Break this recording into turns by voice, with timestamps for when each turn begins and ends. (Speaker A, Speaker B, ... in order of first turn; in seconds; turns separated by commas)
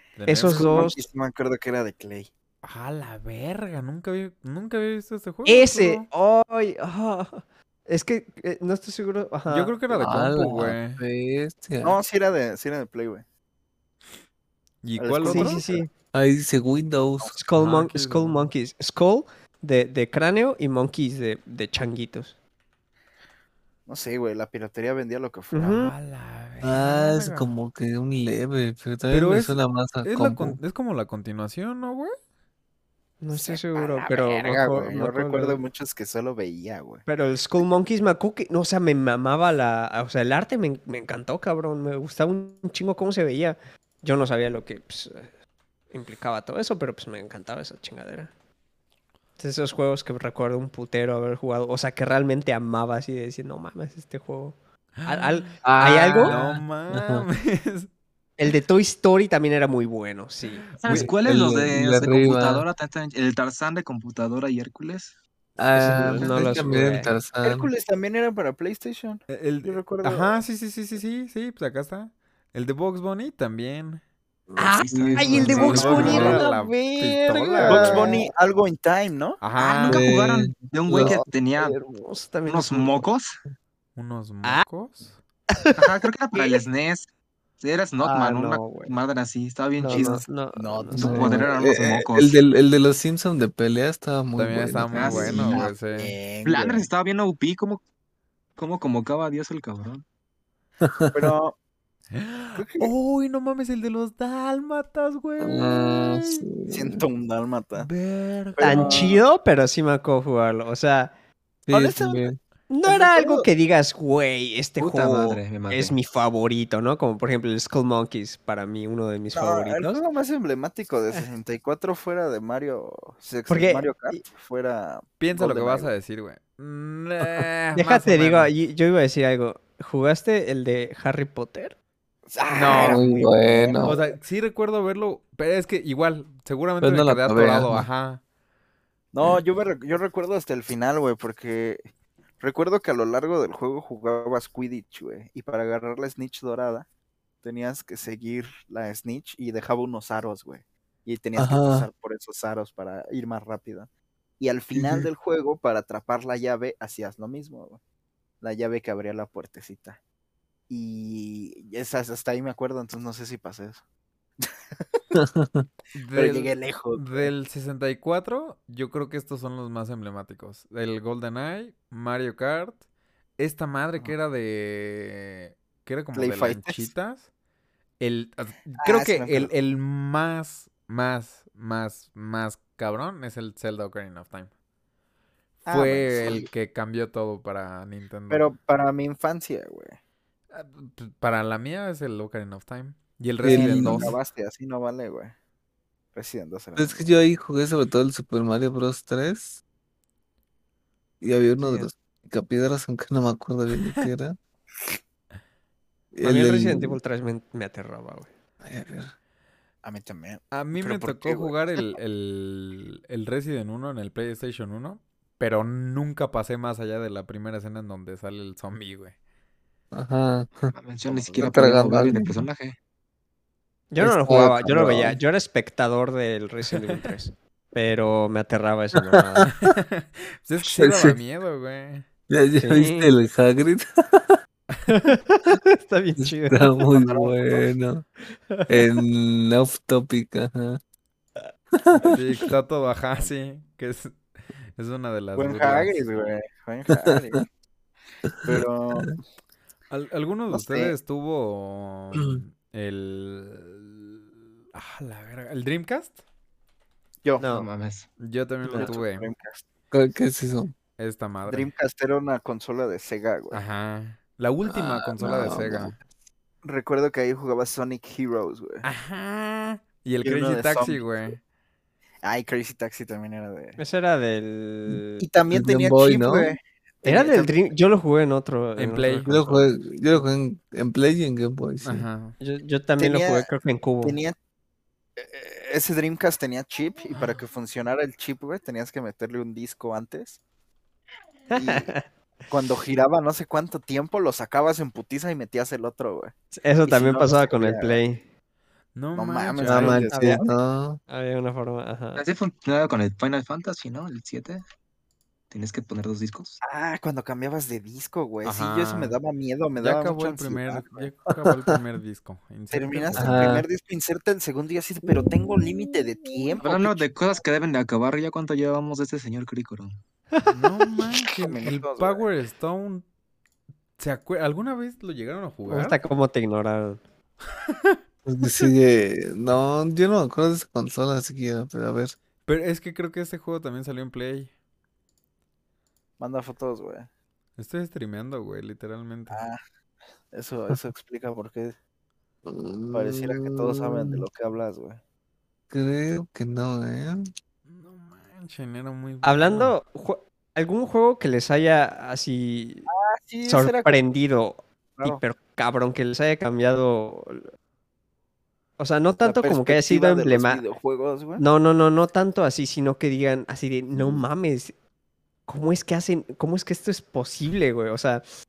Speaker A: 0.2-0.9, Speaker B: 0.3-1.0, Speaker C: 0.4-2.3, Speaker A: 2.6-6.1, Speaker B: 5.5-9.8, Speaker A: 9.5-11.0, Speaker D: 9.9-12.0, Speaker C: 11.8-13.2, Speaker A: 14.8-15.6, Speaker C: 15.0-15.9, Speaker B: 15.2-15.9, Speaker D: 16.1-17.4, Speaker B: 17.3-22.4, Speaker A: 17.6-18.5, Speaker C: 23.9-25.8, Speaker B: 25.5-25.9, Speaker A: 25.7-27.5, Speaker D: 26.6-30.6, Speaker A: 29.1-32.2, Speaker B: 33.2-35.6, Speaker C: 33.3-37.0, Speaker B: 37.1-45.3, Speaker B: 45.9-48.3, Speaker B: 49.4-56.4, Speaker A: 55.0-55.5, Speaker D: 55.6-57.3, Speaker A: 56.2-57.9, Speaker B: 58.4-60.7, Speaker E: 60.8-65.2, Speaker A: 60.9-61.1, Speaker D: 60.9-62.6, Speaker D: 65.6-67.7, Speaker B: 65.7-67.1, Speaker E: 66.0-66.9, Speaker C: 67.4-70.4, Speaker A: 69.3-74.0, Speaker D: 74.5-76.4, Speaker B: 74.6-78.3, Speaker E: 74.8-76.4, Speaker A: 75.4-78.2, Speaker C: 75.5-76.5, Speaker C: 77.6-80.0, Speaker A: 79.4-80.0, Speaker E: 79.8-81.8, Speaker D: 79.9-81.2, Speaker B: 81.0-83.1, Speaker E: 82.5-83.4, Speaker A: 84.0-85.2, Speaker B: 85.5-86.6, Speaker E: 85.8-87.1, Speaker E: 87.6-90.3, Speaker B: 88.0-89.0, Speaker B: 89.8-91.5, Speaker D: 89.8-90.1, Speaker C: 90.5-91.5, Speaker D: 91.0-95.6, Speaker E: 91.0-92.4, Speaker A: 94.4-96.2, Speaker E: 94.9-95.6, Speaker C: 95.1-96.9, Speaker E: 96.4-97.8, Speaker E: 98.6-100.0, Speaker D: 100.8-101.3, Speaker C: 101.1-101.6, Speaker A: 102.1-106.5, Speaker C: 102.6-102.9, Speaker D: 105.4-107.0, Speaker C: 106.7-107.9, Speaker A: 107.8-109.0, Speaker C: 108.6-109.2, Speaker B: 108.6-111.1, Speaker D: 111.7-112.4, Speaker C: 111.7-112.3, Speaker B: 112.7-120.0, Speaker C: 112.9-113.5, Speaker E: 114.8-116.0, Speaker C: 119.3-125.9, Speaker B: 123.5-124.2, Speaker A: 125.2-128.5, Speaker B: 127.8-131.8, Speaker C: 132.3-134.0, Speaker A: 132.5-133.1, Speaker D: 132.7-134.0, Speaker A: 133.8-138.2, Speaker D: 136.8-137.9, Speaker C: 139.1-141.9, Speaker C: 142.4-146.9, Speaker C: 147.4-153.9, Speaker D: 151.4-151.9, Speaker C: 154.4-157.8, Speaker D: 154.7-155.1, Speaker C: 158.4-160.0, Speaker C: 160.7-163.8, Speaker C: 164.4-165.0, Speaker D: 165.1-165.7, Speaker A: 165.9-172.8, Speaker C: 166.2-167.3, Speaker A: 173.4-177.3, Speaker C: 176.1-176.9, Speaker A: 178.0-184.5, Speaker C: 178.8-179.5, Speaker C: 185.7-186.5, Speaker A: 185.7-188.5, Speaker C: 188.3-190.0, Speaker A: 190.5-194.2, Speaker D: 193.4-194.2, Speaker C: 193.4-195.3, Speaker C: 196.1-197.1, Speaker D: 196.8-199.6, Speaker D: 201.2-204.4, Speaker B: 201.6-201.9, Speaker D: 206.1-207.0, Speaker B: 206.2-208.3, Speaker D: 208.6-209.1, Speaker C: 209.8-211.8, Speaker A: 210.5-219.2, Speaker D: 219.9-220.7, Speaker E: 220.7-222.8, Speaker C: 221.1-221.9, Speaker D: 221.4-222.4, Speaker B: 223.9-229.5, Speaker D: 224.0-225.2, Speaker A: 229.6-232.1, Speaker D: 230.6-231.2, Speaker D: 232.3-234.4, Speaker B: 232.6-233.1, Speaker B: 234.9-236.8, Speaker D: 236.2-238.1, Speaker C: 236.9-237.7, Speaker B: 238.3-239.0, Speaker D: 238.7-240.8, Speaker D: 241.8-242.5, Speaker A: 242.0-244.2, Speaker A: 244.8-246.1, Speaker C: 245.4-247.5, Speaker C: 248.4-249.2, Speaker D: 248.5-249.0, Speaker A: 249.9-254.2, Speaker C: 250.5-250.9, Speaker A: 254.7-256.2, Speaker C: 257.2-257.5, Speaker B: 257.4-257.7, Speaker E: 257.5-258.1, Speaker A: 258.2-259.3, Speaker C: 258.7-259.6, Speaker D: 259.9-260.8, Speaker A: 261.0-261.7, Speaker C: 261.5-263.6, Speaker A: 263.5-265.9, Speaker D: 264.7-266.0, Speaker C: 266.6-268.9, Speaker A: 268.8-271.4, Speaker C: 270.2-271.3, Speaker C: 272.2-273.8, Speaker B: 273.8-275.3, Speaker D: 274.9-276.6, Speaker C: 275.2-277.7, Speaker B: 277.0-279.7, Speaker A: 278.8-279.3, Speaker D: 279.2-282.1, Speaker A: 281.8-282.4, Speaker B: 282.4-284.2, Speaker C: 283.0-283.5, Speaker C: 284.0-284.4, Speaker C: 285.2-290.4, Speaker B: 291.5-292.1, Speaker C: 291.6-291.9, Speaker C: 292.5-296.3, Speaker B: 296.6-298.2, Speaker C: 296.9-298.0, Speaker A: 298.9-300.1, Speaker C: 299.1-300.5, Speaker D: 299.6-301.0, Speaker B: 300.1-300.5, Speaker B: 301.1-302.2, Speaker E: 302.2-304.6, Speaker E: 305.5-306.6, Speaker C: 306.6-311.1, Speaker A: 308.4-309.2, Speaker A: 309.8-313.5, Speaker D: 311.4-311.8, Speaker C: 312.7-317.1, Speaker D: 313.2-313.7, Speaker E: 316.6-320.0, Speaker A: 320.4-323.1, Speaker C: 321.4-322.3, Speaker A: 324.0-326.0, Speaker B: 325.7-327.0, Speaker A: 327.7-328.0, Speaker D: 328.3-332.2, Speaker A: 332.5-334.5, Speaker C: 336.2-337.1, Speaker A: 337.6-339.4, Speaker C: 339.3-339.6, Speaker C: 340.3-341.8, Speaker D: 342.5-344.2, Speaker C: 342.9-345.0, Speaker D: 345.7-347.2, Speaker A: 347.7-349.7, Speaker B: 349.2-352.9, Speaker C: 352.9-354.0, Speaker B: 353.5-357.5, Speaker B: 358.8-360.6, Speaker C: 359.2-361.4, Speaker B: 361.4-364.7, Speaker B: 365.5-368.2